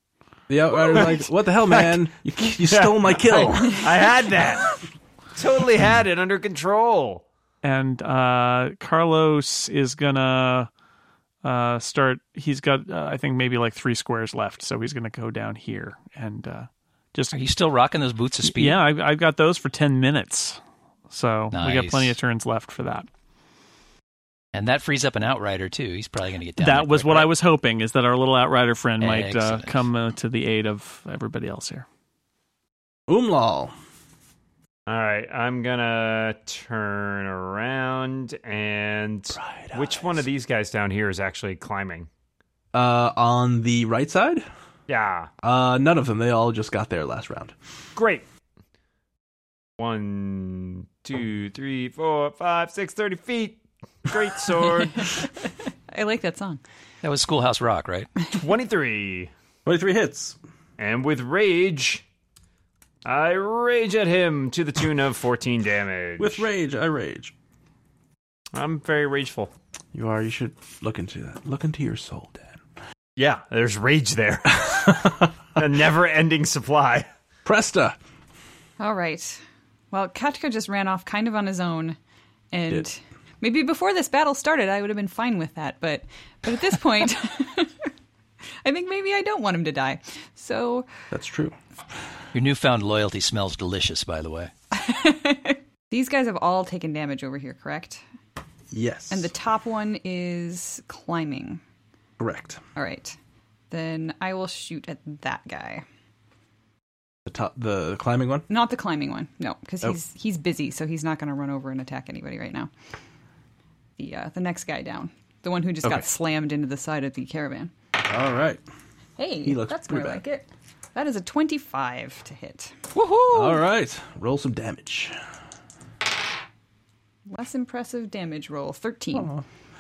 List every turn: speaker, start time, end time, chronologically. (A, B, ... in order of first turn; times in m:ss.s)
0:00.5-0:04.1 A
0:01.7-0:02.0 B
0:02.6-0:04.8 B
0:05.4-0:07.2 B
0:07.6-0:10.7 C
0:11.4-0:17.3 C
0:17.3-0:18.8 D
0:18.4-0:23.1 C
0:21.5-0:22.2 D
0:24.5-0:27.3 D
0:26.6-0:31.9 C
0:29.0-0:29.8 D
0:33.1-0:33.7 A
0:34.9-0:42.1 B
0:39.3-0:40.2 A
0:42.7-0:44.4 A
0:44.9-0:45.3 B
0:45.4-0:47.5 A
0:48.0-0:48.3 B
0:49.8-0:55.2 B
0:54.8-0:56.6 E
0:57.0-0:58.1 D
0:58.3-0:59.3 B
0:59.6-1:00.4 A
1:00.8-1:02.0 B
1:03.0-1:06.5 B
1:06.2-1:07.3 A
1:08.5-1:09.5 B
1:09.9-1:12.6 A
1:13.2-1:17.1 B
1:17.4-1:18.0 A
1:18.8-1:22.0 E
1:22.5-1:27.9 E
1:28.6-1:30.9 E
1:31.1-1:31.6 A
1:32.3-1:34.5 D
1:34.7-1:38.0 E
1:38.7-1:39.3 A
1:39.1-1:41.6 E
1:42.2-1:42.6 A
1:42.8-1:43.2 E
1:43.7-1:45.8 E
1:47.3-1:48.5 A
1:48.5-1:52.7 E
1:54.0-1:57.7 E
1:58.0-1:58.6 A
1:59.2-2:02.9 E
1:59.4-2:00.2 A
2:03.2-2:03.6 D
2:03.3-2:05.2 A
2:07.3-2:09.3 E
2:09.1-2:09.4 A